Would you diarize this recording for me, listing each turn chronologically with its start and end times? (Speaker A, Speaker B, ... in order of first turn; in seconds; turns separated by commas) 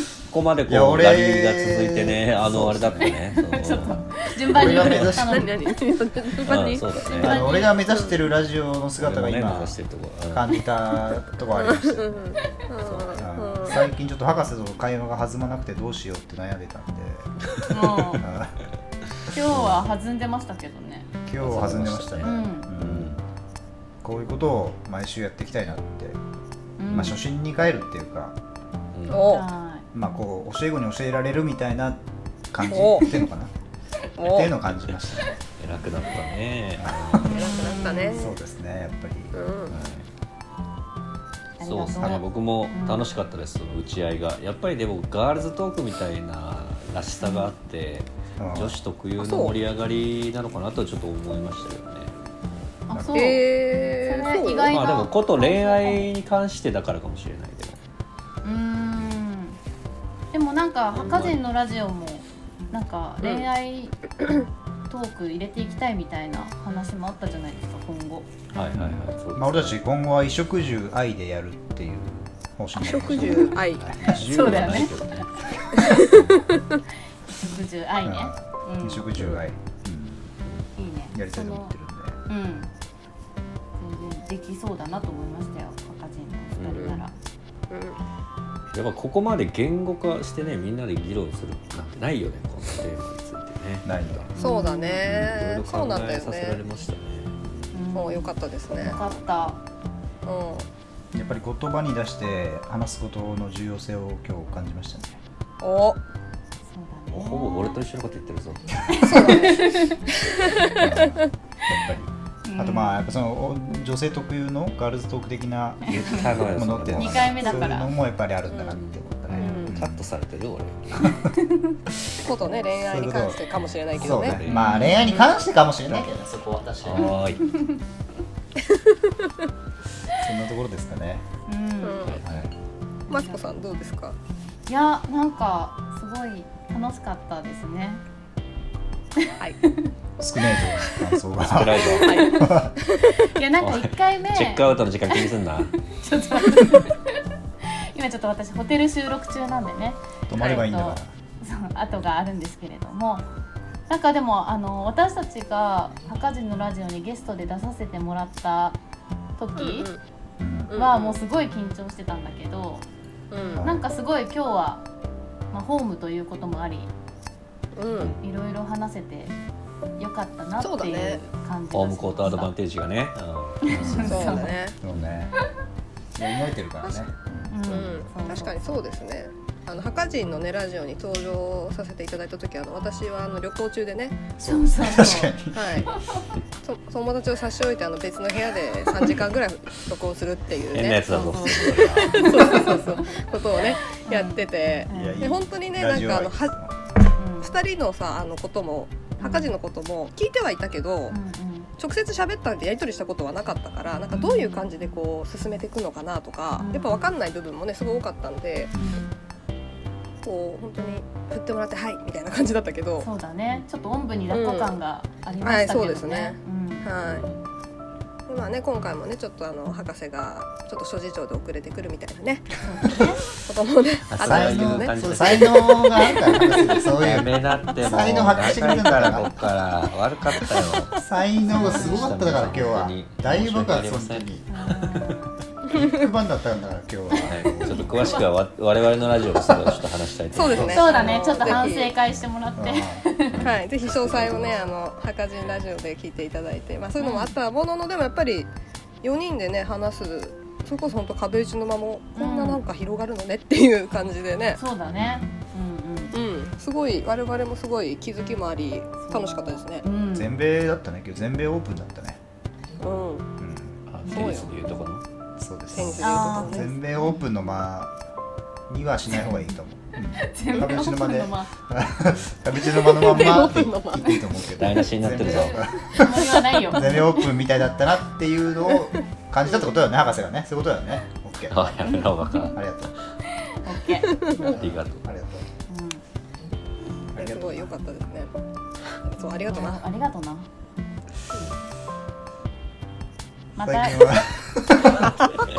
Speaker A: 0.3-5.2, Speaker B: 0.7-3.2, Speaker C: 3.0-6.0, Speaker B: 4.5-5.5, Speaker D: 5.0-7.4, Speaker A: 6.4-7.5, Speaker C: 7.1-7.8, Speaker B: 7.2-9.8, Speaker D: 7.9-8.1, Speaker A: 9.0-10.5, Speaker B: 10.3-17.3, Speaker D: 11.5-13.8, Speaker A: 17.6-18.2, Speaker C: 17.7-18.2, Speaker B: 18.2-18.6, Speaker C: 19.3-21.1, Speaker A: 19.5-19.9, Speaker B: 21.3-23.1, Speaker A: 21.4-23.2, Speaker C: 22.2-22.7, Speaker B: 24.0-26.2, Speaker C: 26.8-27.2, Speaker B: 26.9-28.4, Speaker A: 28.9-29.4, Speaker D: 29.1-29.5, Speaker C: 29.1-29.9, Speaker B: 29.9-33.5, Speaker D: 32.6-33.1, Speaker D: 34.2-34.5, Speaker B: 34.2-35.4, Speaker A: 35.6-37.4, Speaker B: 36.8-37.4, Speaker D: 37.2-38.3, Speaker C: 37.3-38.4, Speaker B: 38.1-40.0, Speaker D: 39.3-39.7, Speaker A: 39.7-40.0, Speaker C: 41.6-43.1, Speaker A: 41.6-52.1, Speaker C: 47.2-47.5, Speaker B: 48.4-48.8, Speaker D: 49.2-49.6, Speaker C: 52.9-56.1, Speaker B: 52.9-53.3, Speaker D: 53.1-54.7, Speaker A: 54.7-57.8, Speaker C: 58.4-59.6, Speaker C: 60.3-64.0, Speaker A: 60.9-61.4, Speaker D: 63.2-63.5, Speaker C: 64.9-68.3, Speaker A: 68.5-69.8, Speaker B: 68.7-74.9, Speaker D: 72.8-73.9, Speaker A: 73.9-75.3, Speaker C: 74.1-75.0, Speaker C: 75.7-76.1, Speaker D: 75.8-76.6, Speaker A: 76.0-76.3, Speaker B: 76.0-76.3, Speaker C: 77.3-79.1, Speaker B: 78.0-80.3, Speaker C: 80.8-81.7, Speaker B: 81.1-82.2, Speaker C: 82.3-82.7, Speaker C: 83.8-87.1, Speaker A: 86.6-87.0, Speaker D: 86.7-87.0, Speaker D: 87.7-88.0, Speaker A: 88.7-94.3, Speaker B: 93.8-94.3, Speaker C: 94.4-95.1, Speaker D: 94.4-96.6, Speaker A: 95.0-97.7, Speaker C: 97.7-99.6, Speaker D: 97.9-99.0, Speaker D: 100.2-100.7, Speaker B: 101.1-105.2, Speaker D: 105.6-106.0, Speaker C: 106.7-107.8, Speaker A: 107.1-109.0, Speaker C: 108.9-110.1, Speaker B: 108.9-109.3, Speaker D: 109.0-111.1, Speaker B: 110.7-120.1, Speaker C: 112.5-113.1, Speaker A: 115.9-117.6, Speaker C: 117.0-117.9, Speaker A: 118.6-121.3, Speaker C: 119.4-119.7, Speaker D: 119.4-119.8, Speaker B: 120.9-121.3, Speaker C: 121.3-121.8, Speaker D: 122.2-124.4, Speaker B: 122.8-123.4, Speaker A: 123.5-125.1, Speaker B: 123.9-127.3, Speaker C: 124.5-125.3, Speaker A: 126.8-127.6, Speaker C: 127.4-127.8, Speaker D: 128.7-129.0, Speaker B: 130.2-131.2, Speaker C: 131.5-132.2, Speaker D: 131.8-132.2, Speaker A: 132.0-132.3, Speaker B: 132.2-132.5, Speaker C: 133.1-133.7, Speaker D: 133.1-134.2, Speaker C: 134.7-138.0, Speaker C: 139.2-139.9, Speaker B: 140.2-142.7, Speaker A: 141.4-142.3, Speaker D: 142.0-143.2, Speaker C: 142.0-153.3, Speaker A: 143.6-145.8, Speaker B: 150.3-151.1, Speaker C: 153.9-158.8, Speaker C: 159.4-159.9, Speaker D: 159.6-160.0, Speaker B: 160.4-160.7, Speaker D: 160.7-161.2, Speaker C: 160.7-162.9, Speaker D: 163.3-163.7, Speaker B: 163.6-163.8, Speaker C: 163.6-164.8, Speaker C: 165.5-166.9, Speaker D: 167.7-168.2, Speaker A: 167.9-168.2, Speaker C: 168.2-169.3, Speaker C: 170.0-172.5, Speaker D: 170.6-171.2, Speaker A: 171.7-174.5, Speaker C: 173.6-174.6, Speaker B: 173.7-175.3, Speaker D: 174.0-174.8, Speaker B: 176.2-177.7, Speaker C: 177.5-178.6, Speaker D: 177.7-184.2, Speaker B: 184.4-185.9, Speaker C: 184.4-185.4, Speaker D: 185.5-185.9, Speaker C: 185.9-186.2, Speaker D: 186.6-196.6, Speaker A: 190.7-192.7, Speaker C: 191.1-193.2, Speaker C: 193.9-195.3, Speaker B: 194.9-196.7, Speaker C: 197.2-197.5, Speaker D: 197.4-201.2, Speaker C: 199.2-199.5, Speaker C: 201.1-201.7, Speaker D: 201.8-208.7, Speaker C: 204.1-204.7, Speaker C: 206.6-207.1, Speaker C: 208.8-209.1, Speaker D: 210.2-213.1, Speaker C: 213.0-216.9, Speaker D: 214.3-214.8, Speaker D: 215.4-217.2, Speaker A: 217.0-217.4, Speaker D: 218.3-222.6, Speaker C: 222.6-223.3, Speaker D: 223.3-226.7, Speaker A: 224.1-235.2, Speaker B: 224.2-229.3, Speaker B: 230.9-234.5, Speaker C: 231.5-232.1, Speaker C: 234.5-235.3, Speaker B: 235.7-238.1, Speaker C: 237.2-238.2, Speaker A: 237.3-241.5, Speaker B: 239.4-239.8, Speaker D: 240.3-241.9, Speaker B: 240.5-241.2, Speaker C: 240.7-243.4, Speaker B: 242.6-243.1, Speaker A: 243.3-244.6, Speaker D: 243.4-248.5, Speaker C: 247.0-247.3, Speaker D: 249.0-254.6, Speaker C: 252.2-252.6, Speaker C: 254.6-256.2, Speaker B: 254.9-255.3, Speaker D: 256.1-259.9, Speaker C: 259.0-260.3, Speaker B: 260.1-262.2, Speaker D: 262.8-263.3, Speaker B: 263.4-263.8, Speaker A: 263.9-265.0, Speaker D: 264.1-264.7, Speaker B: 265.4-268.0, Speaker D: 265.7-266.7, Speaker C: 266.0-267.2, Speaker B: 268.7-282.9, Speaker C: 270.2-271.5, Speaker D: 272.7-274.6, Speaker A: 274.6-275.6, Speaker C: 275.6-277.3, Speaker A: 281.5-282.6, Speaker C: 282.2-282.6, Speaker C: 283.4-284.6, Speaker D: 284.1-284.4, Speaker B: 284.4-285.5, Speaker A: 284.4-285.0, Speaker C: 285.7-286.0, Speaker B: 287.1-287.7, Speaker D: 287.2-288.3, Speaker D: 289.1-289.8, Speaker C: 289.2-290.5, Speaker C: 293.6-294.1, Speaker B: 293.6-295.1